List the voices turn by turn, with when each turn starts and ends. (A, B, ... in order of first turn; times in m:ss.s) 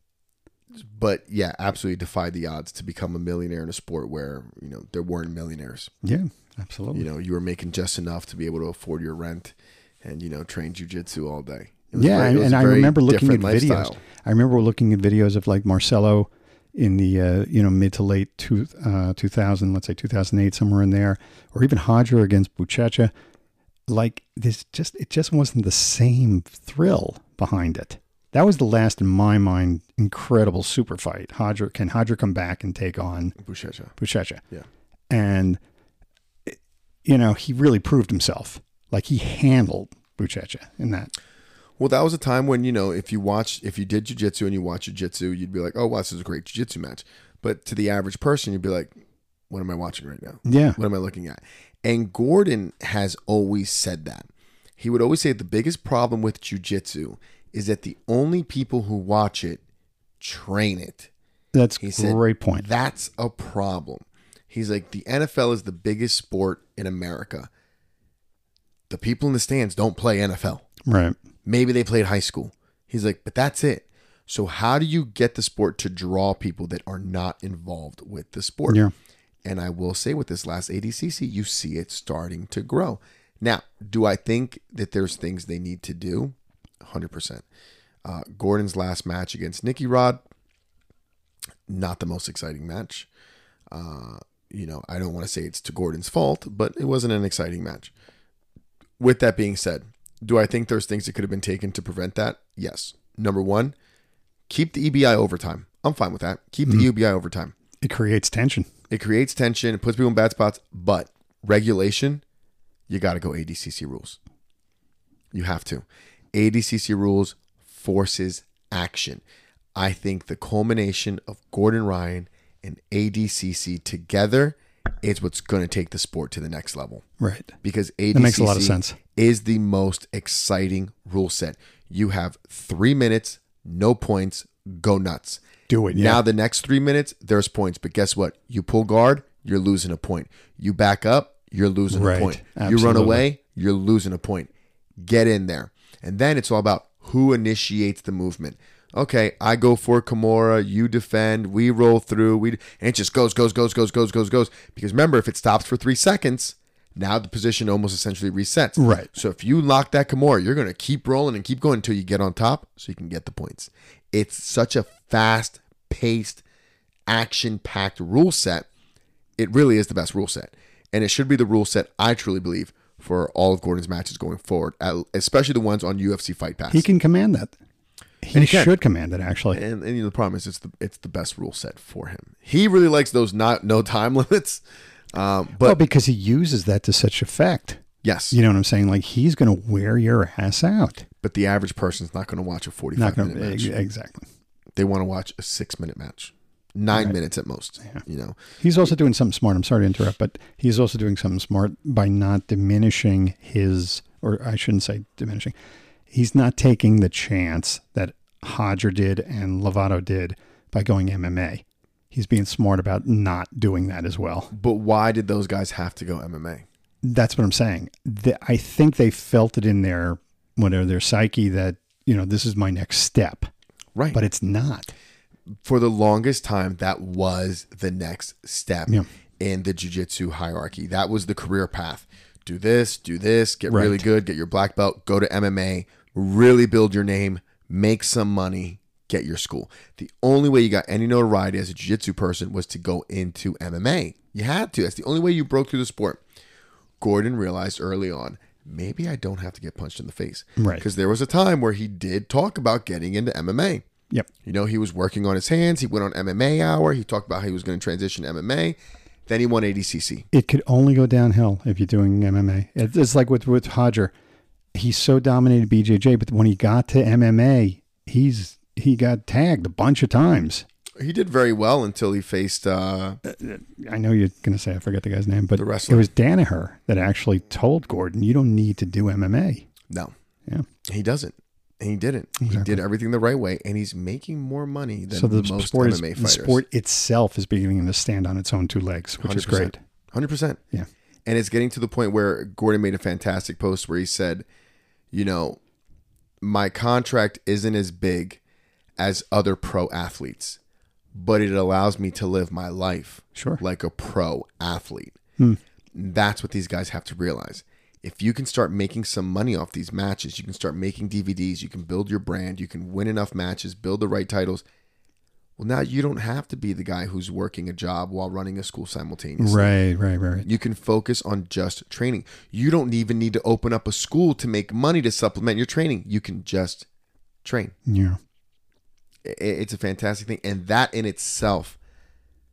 0:00.8-0:05.9 A
0:06.0-0:07.0 B
0:06.9-0:14.0 A
0:11.9-0:23.1 B
0:23.9-0:33.4 B
0:33.4-0:33.9 A
0:34.0-0:34.4 B
0:35.1-0:35.6 B
0:36.5-0:41.1 B
0:41.8-0:48.9 A
0:49.5-0:54.3 A
0:50.4-0:50.8 B
0:54.8-0:59.6 A
1:00.2-1:01.1 A
1:01.5-1:02.6 B
1:01.8-1:07.5 A
1:08.9-1:10.6 A
1:10.8-1:11.2 B
1:11.4-1:18.8 A
1:19.4-1:27.4 A
1:28.0-1:30.2 A
1:31.7-1:33.1 A
1:33.7-1:37.9 A
1:39.0-1:43.7 A
1:44.5-1:47.5 A
1:47.8-1:48.7 B
1:48.9-1:52.2 A
1:52.9-1:54.2 A
1:55.3-1:59.2 A
1:59.7-2:07.0 A
2:07.2-2:07.5 B
2:07.6-2:15.4 A
2:08.1-2:09.0 B
2:15.7-2:16.2 B
2:15.9-2:24.5 A
2:21.9-2:23.2 B
2:25.0-2:46.4 A
2:38.8-2:39.1 B
2:47.1-2:48.7 A
2:49.4-2:56.8 A
2:56.7-2:57.5 B
2:58.2-2:59.6 B
2:58.3-2:58.7 A
2:59.5-3:04.6 A
3:05.1-3:05.8 A
3:05.6-3:11.0 B
3:08.0-3:08.4 A
3:11.2-3:13.7 A
3:13.0-3:14.3 B
3:14.8-3:18.4 A
3:18.6-3:25.5 B
3:26.1-3:34.5 B
3:34.5-3:36.6 A
3:37.0-3:43.5 B
3:44.1-3:44.9 B
3:45.6-4:06.2 A
3:53.7-3:54.0 B
4:07.0-4:13.8 A
4:10.6-4:10.8 B
4:14.4-4:18.8 A
4:19.3-4:20.2 A
4:20.3-4:24.1 B
4:24.7-4:30.6 B
4:31.0-4:33.2 A
4:33.2-4:39.6 B
4:35.5-4:36.1 A
4:40.8-4:46.6 A
4:42.4-4:42.8 B
4:45.1-4:49.8 B
4:49.2-4:50.6 A
4:51.2-4:54.4 A
4:55.1-4:55.6 A
4:56.4-4:58.4 A
4:59.0-5:00.6 A
5:01.1-5:05.2 A
5:03.3-5:03.6 B
5:05.9-5:14.6 A
5:15.6-5:19.7 A
5:19.4-5:20.5 B
5:20.4-5:26.9 A
5:27.4-5:27.7 A
5:27.8-5:28.2 B
5:29.2-5:31.8 A